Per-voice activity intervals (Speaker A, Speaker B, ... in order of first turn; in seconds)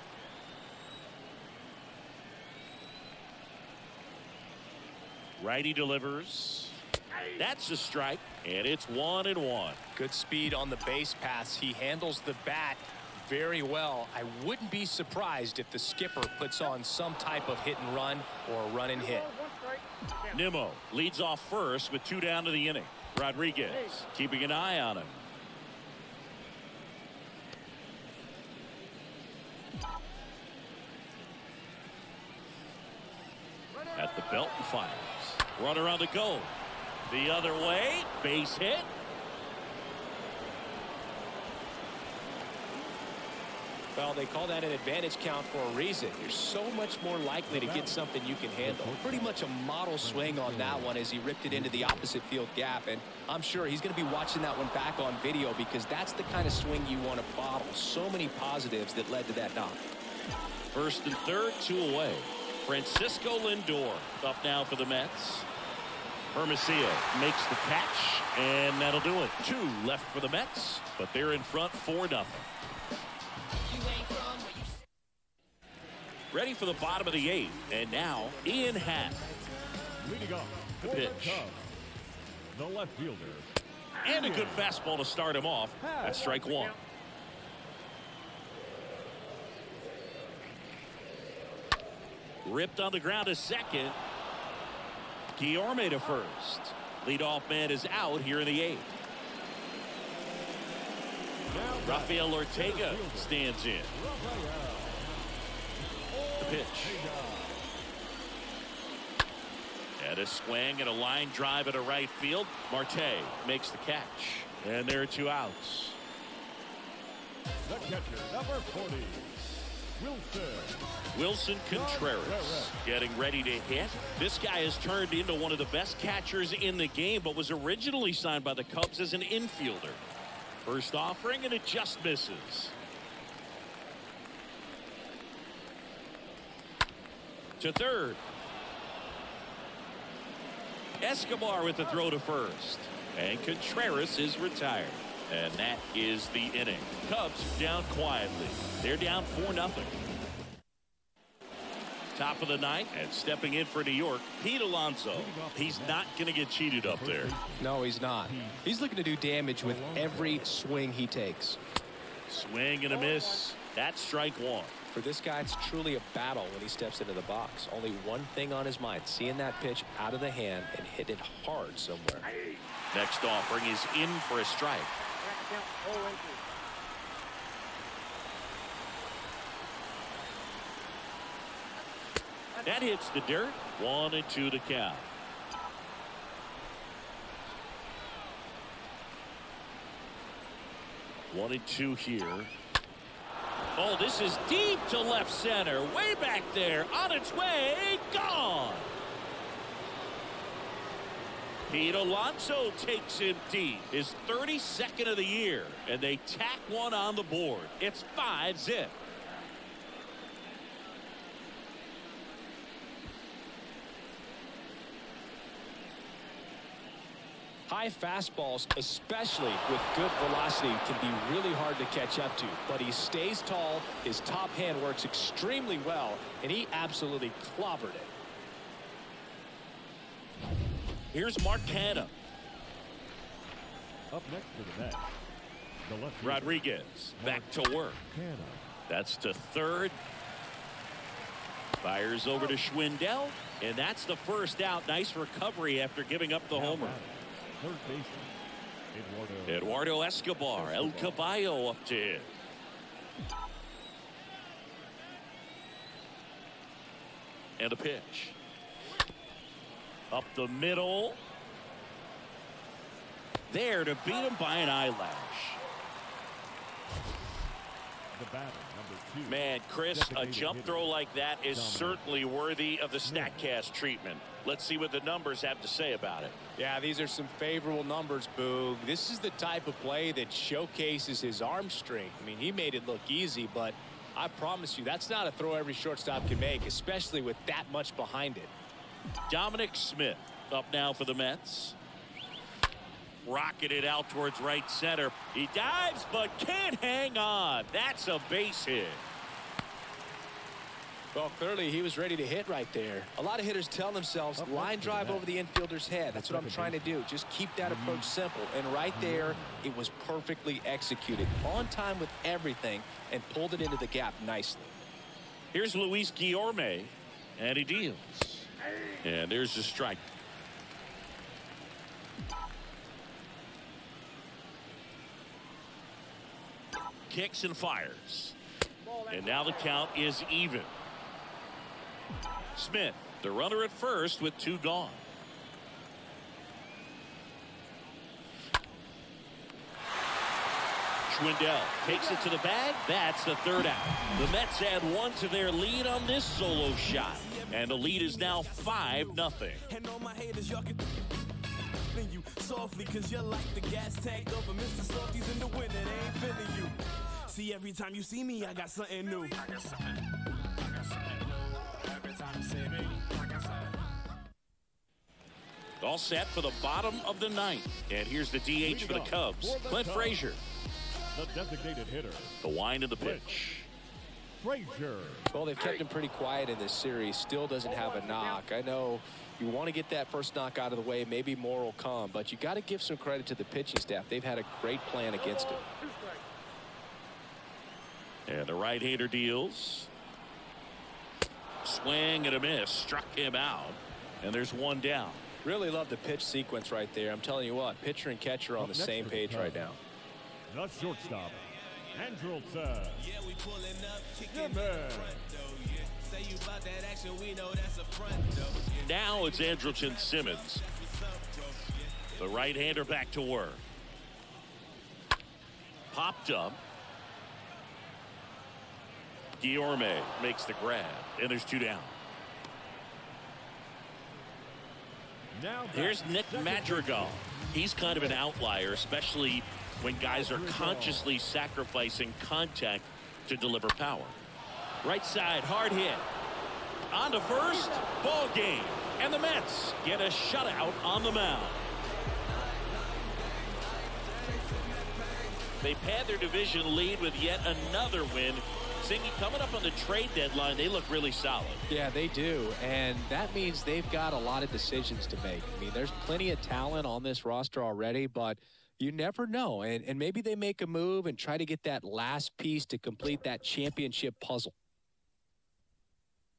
Speaker A: 5.4-6.8, 7.3-9.8, 20.3-25.2, 33.9-36.5, 37.1-38.9, 60.7-65.5, 66.3-72.5, 76.3-79.3, 80.8-81.5, 84.0-86.8, 92.4-94.0, 95.3-98.9, 101.8-104.0, 106.4-107.0, 110.0-116.0, 121.1-130.0, 130.6-132.7, 137.6-138.2, 141.0-150.0, 152.1-157.3, 162.3-164.8, 172.9-175.0, 182.6-185.1, 191.3-192.5, 193.8-198.9, 201.7-208.9, 231.1-232.1, 236.2-238.0, 238.9-240.0, 241.8-247.0, 249.5-252.3, 257.6-258.4, 260.1-261.2, 263.5-265.6, 269.3-276.4, 289.3-291.8, 293.2-299.0, 315.5-318.5, 319.0-320.0, 327.1-328.4, 328.9-330.7, 332.5-335.0, 341.1-349.6, 365.8-370.4, 372.4-373.7, 388.3-389.9, 391.6-395.2, 408.8-410.6, 412.2-413.6, 415.9-416.6, 419.4-422.0, 425.7-434.2, 434.8-436.1, 436.9-441.6, 445.6-451.6
Speaker B: 9.9-19.6, 44.0-59.8, 157.6-161.6, 164.9-172.3, 217.7-228.1, 276.6-288.5, 301.1-314.7, 375.3-385.9, 395.4-399.8, 451.7-464.5
Speaker C: 47.5-48.1, 48.6-52.2, 80.0-81.7, 82.5-83.5, 84.1-84.7, 101.5-105.3, 106.1-107.6, 117.6-120.8, 121.7-122.8, 155.1-156.1, 156.8-158.7, 159.6-160.5, 234.1-235.1, 235.8-238.8, 246.5-248.3, 248.9-249.9, 250.5-251.3, 268.1-270.9, 271.5-272.0, 273.0-273.5, 304.4-305.3, 306.1-306.9, 307.6-308.2, 308.9-309.7, 368.6-370.2, 371.1-372.4, 373.0-373.5, 374.4-375.3, 398.6-399.8, 400.5-403.1, 404.3-405.2, 425.3-428.2, 430.1-431.1
Speaker D: 347.1-350.9, 351.9-359.8, 361.1-363.3, 400.8-412.6, 442.3-445.7